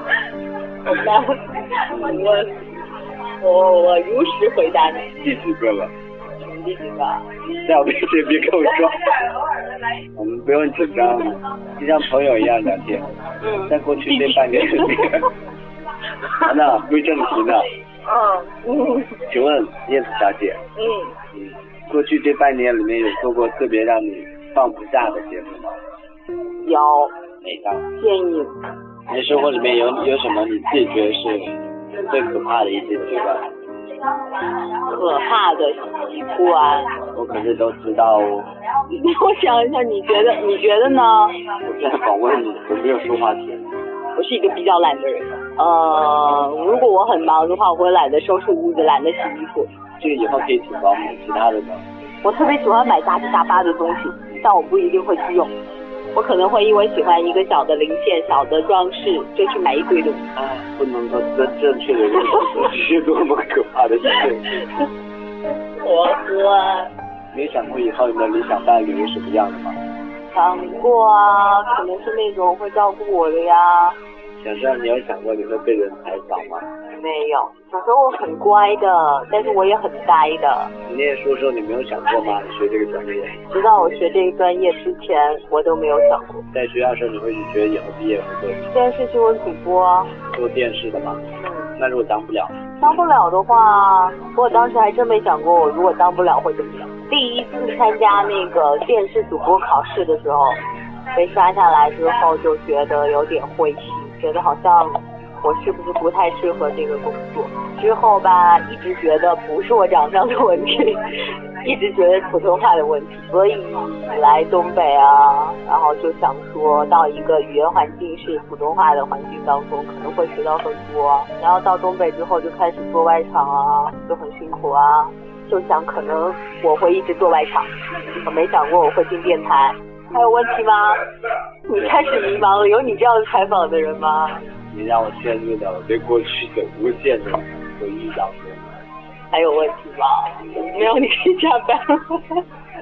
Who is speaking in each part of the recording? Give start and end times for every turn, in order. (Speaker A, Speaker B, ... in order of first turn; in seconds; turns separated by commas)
Speaker A: 0.9-2.6, Speaker A: 3.4-5.2, Speaker B: 5.2-5.9, Speaker A: 6.4-7.3, Speaker B: 7.6-9.1, Speaker B: 10.2-13.1, Speaker A: 13.4-15.1, Speaker B: 13.7-15.3, Speaker B: 16.4-17.7, Speaker A: 18.1-19.2, Speaker B: 19.3-20.6, Speaker A: 20.8-21.1, Speaker B: 21.3-25.8, Speaker A: 26.6-27.1, Speaker B: 27.4-27.9, Speaker A: 27.9-28.6, Speaker B: 29.1-31.5, Speaker B: 32.0-33.5, Speaker A: 34.8-37.0, Speaker B: 37.1-38.5, Speaker A: 38.9-41.4, Speaker B: 41.6-43.7, Speaker A: 44.1-49.7, Speaker B: 50.0-51.8, Speaker A: 52.2-55.5, Speaker A: 56.1-60.3, Speaker B: 60.4-64.5, Speaker A: 65.8-66.9, Speaker B: 67.3-69.8, Speaker A: 70.3-74.0, Speaker B: 74.4-76.7, Speaker A: 77.0-80.7, Speaker B: 80.9-83.4, Speaker A: 83.5-86.4, Speaker B: 86.5-88.7, Speaker A: 88.7-90.2, Speaker B: 90.3-91.2, Speaker A: 91.4-91.7, Speaker B: 91.8-92.6, Speaker A: 92.8-100.6, Speaker A: 101.1-111.0, Speaker A: 111.6-127.7, Speaker A: 128.2-131.0, Speaker A: 131.7-134.4, Speaker B: 131.8-132.0, Speaker B: 134.7-138.7, Speaker A: 139.3-142.4